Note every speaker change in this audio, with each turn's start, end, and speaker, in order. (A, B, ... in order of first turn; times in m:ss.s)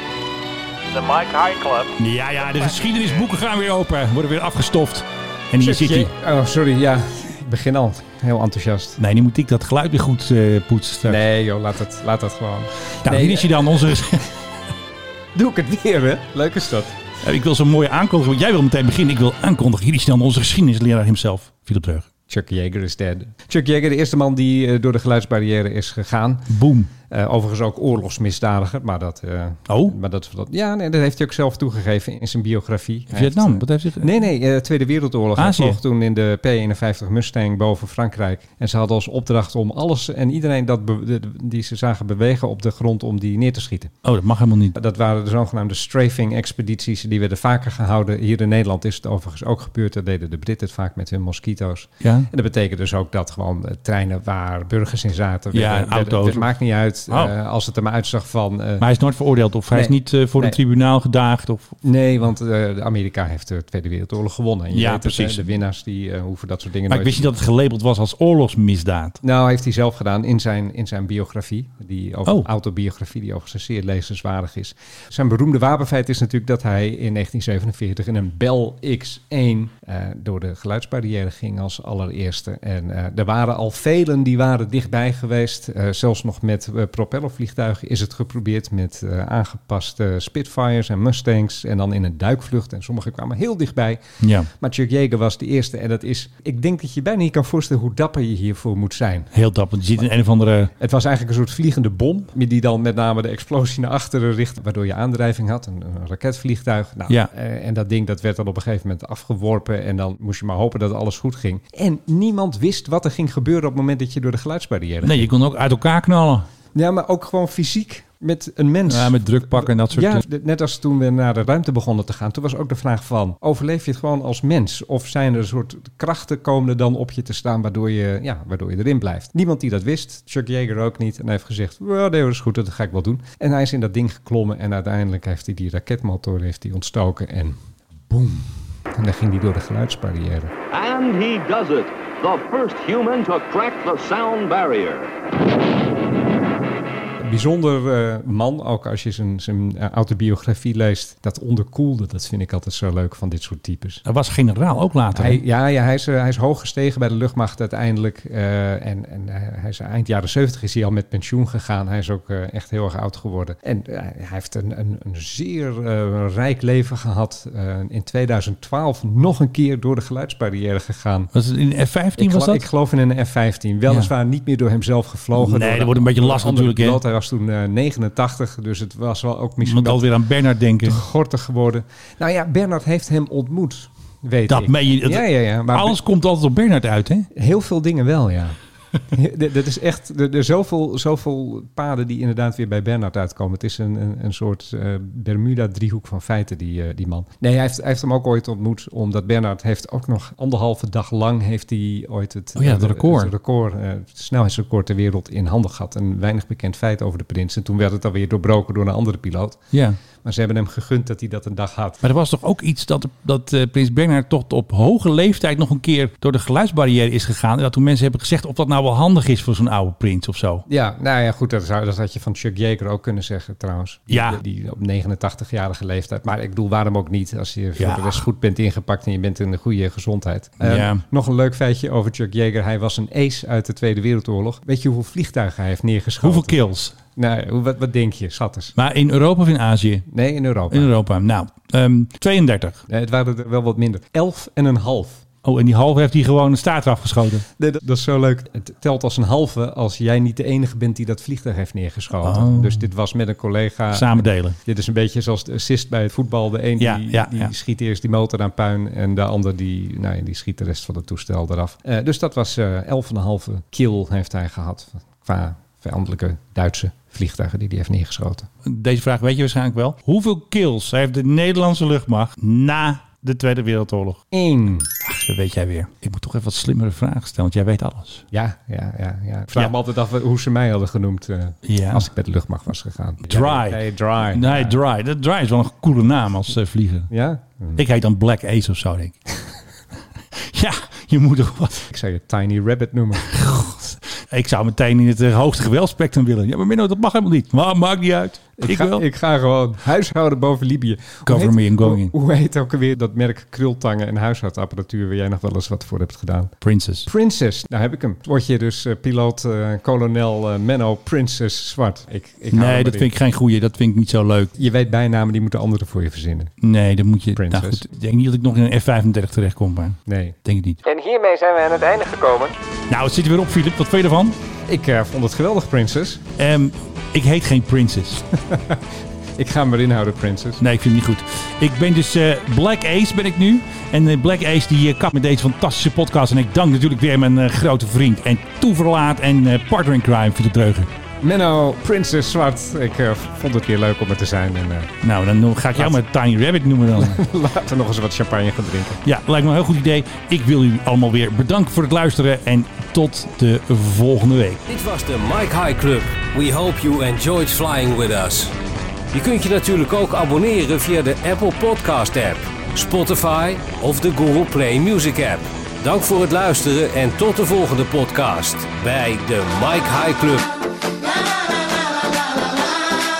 0:00.9-0:06.1 A
0:05.6-0:09.0 B
0:09.0-0:11.2 A
0:11.0-0:14.0 B
0:13.0-0:14.3 A
0:15.4-0:17.0 B
0:17.2-0:22.1 A
0:22.3-0:26.5 B
0:26.5-0:26.9 A
0:27.1-0:43.9 B
0:29.7-0:30.0 A
0:33.1-0:34.1 A
0:35.4-0:35.8 A
0:44.0-0:44.8 A
0:44.8-0:58.8 B
0:52.0-0:52.3 A
0:55.5-0:56.5 A
0:57.1-0:57.3 A
0:58.8-1:01.8 A
0:59.7-1:00.6 B
1:01.8-1:07.3 B
1:04.7-1:05.5 A
1:06.9-1:09.2 A
1:09.2-1:39.3 B
1:34.2-1:34.5 A
1:39.3-1:40.7 A
1:40.8-1:55.3 B
1:55.0-1:56.5 A
1:56.7-2:20.5 B
1:58.9-2:00.2 A
2:20.7-2:25.1 C
2:27.2-2:34.0 B
2:34.0-2:35.4 A
2:35.1-2:51.3 B
2:51.3-2:52.6 A
2:52.2-3:00.0 B
2:55.4-2:57.0 A
2:59.6-3:01.0 A
3:00.8-3:06.0 B
3:04.5-3:07.3 A
3:07.4-3:08.6 B
3:09.1-3:29.6 B
3:22.6-3:23.3 A
3:29.7-3:30.0 A
3:30.2-3:32.0 B
3:32.0-3:40.6 A
3:40.7-3:56.6 B
3:44.1-3:44.4 A
3:47.8-3:48.2 A
3:50.6-3:51.0 A
3:56.2-3:57.0 A
3:57.2-3:58.7 B
3:58.8-4:00.1 A
4:00.1-4:00.9 B
4:00.7-4:02.8 A
4:02.9-4:05.2 B
4:05.4-4:07.4 A
4:07.6-4:28.5 B
4:12.2-4:12.9 A
4:13.9-4:14.6 A
4:16.8-4:17.5 A
4:28.6-4:34.2 A
4:34.3-4:34.9 B
4:35.0-4:38.2 A
4:38.3-4:44.8 B
4:41.6-4:42.1 A
4:43.2-4:47.1 A
4:47.1-4:47.8 B
4:47.8-4:49.2 A
4:50.3-4:51.8 A
4:51.9-4:53.3 B
4:53.2-4:59.0 A
4:58.6-5:06.5 B
5:01.2-5:02.1 A
5:06.6-5:07.1 A
5:07.0-5:13.1 B
5:12.5-5:14.5 A
5:14.6-5:16.5 B
5:16.6-5:20.8 A
5:17.3-5:17.8 B
5:20.1-5:22.6 B
5:22.9-5:24.4 A
5:24.7-5:26.2 B
5:26.4-5:28.2 A
5:28.4-5:28.9 B
5:29.4-5:30.6 B
5:30.6-5:40.9 A
5:41.2-5:44.9 B
5:45.0-5:47.2 A
5:47.0-5:49.0 B
5:49.0-5:54.6 A
5:54.7-5:58.5 D
5:59.1-6:10.5 D